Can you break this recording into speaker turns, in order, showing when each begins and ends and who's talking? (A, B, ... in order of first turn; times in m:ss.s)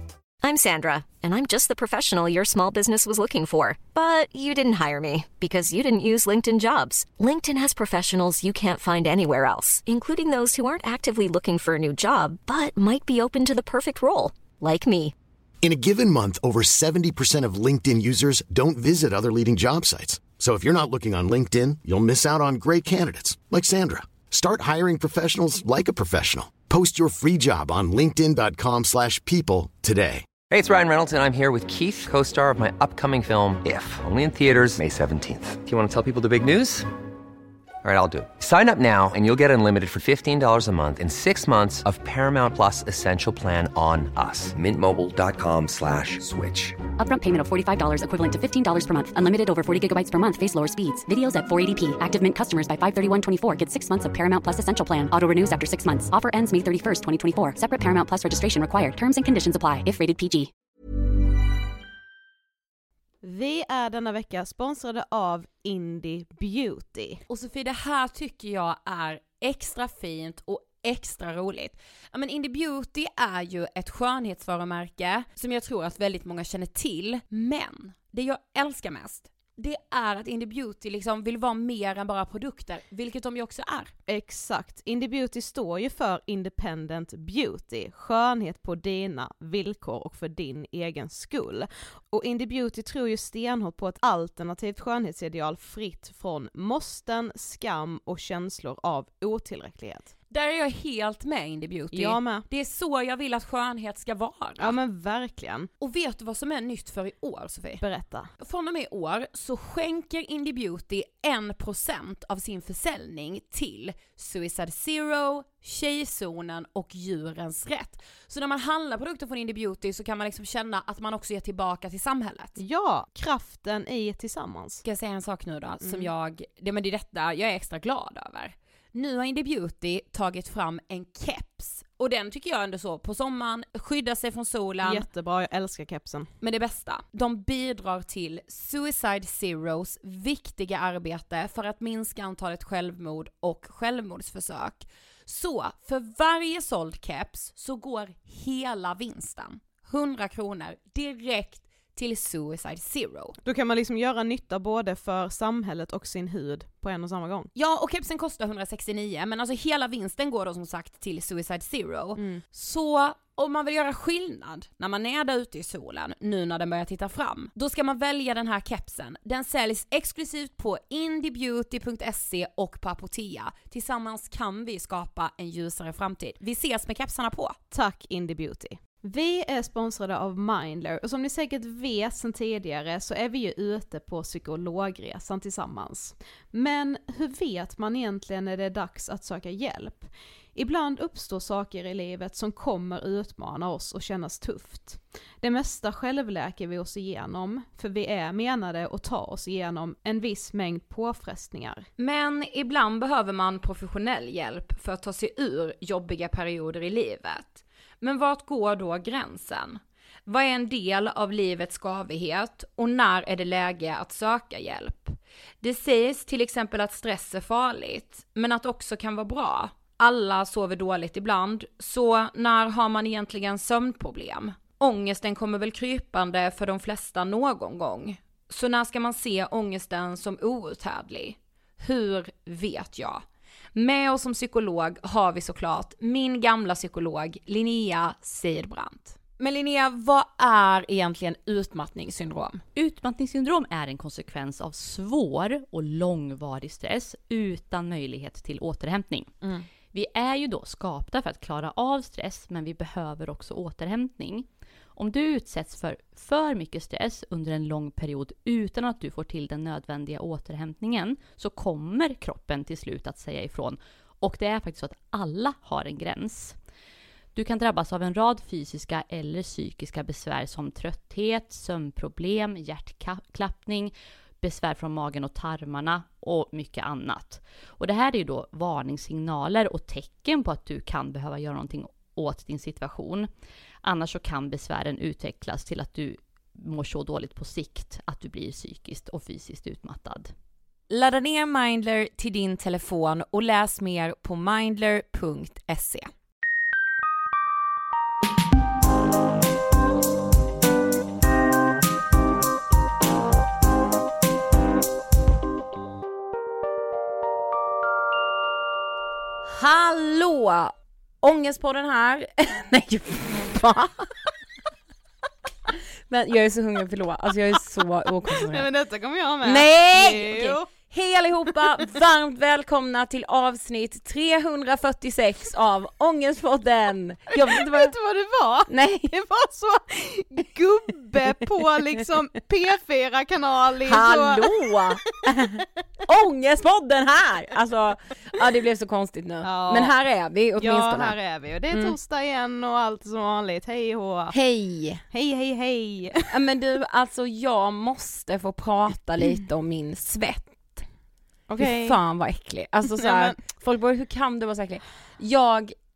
0:00.4-0:15.1 A
0:15.6-0:30.3 B
0:30.5-0:36.9 C
0:37.8-0:46.8 C
0:47.0-1:00.5 D
1:03.2-1:07.2 E
1:07.3-1:23.9 F
1:24.1-1:40.1 E
1:40.3-1:44.7 F
1:41.9-1:42.4 E
1:44.6-1:45.7 E
1:45.8-1:47.8 F
1:47.8-1:48.3 E
1:48.4-2:02.6 F
2:02.6-2:04.8 E
2:04.8-2:15.0 F
2:05.8-2:06.1 E
2:14.8-2:16.3 E
2:16.4-2:33.3 F
2:33.4-2:37.5 E
2:37.5-2:57.6 F
2:42.2-2:42.4 E
2:57.7-3:21.8 E
3:22.0-3:53.2 F
3:53.7-4:02.6 F
4:02.7-4:09.3 G
4:09.9-4:26.5 G
4:27.3-4:43.3 G
4:43.8-4:50.3 G
4:50.9-4:56.1 F
5:09.5-5:14.1 F
5:16.1-5:18.6 F
5:18.4-5:20.6 E
5:19.4-5:27.9 F
5:27.3-5:34.7 E
5:28.7-5:29.1 F
5:33.9-5:41.2 F
5:39.4-5:39.9 E
5:40.6-5:44.3 E
5:44.3-5:45.0 F
5:45.1-5:46.3 E
5:46.3-5:50.8 F
5:51.5-5:52.0 E
5:51.6-5:55.7 F
5:53.0-5:53.4 E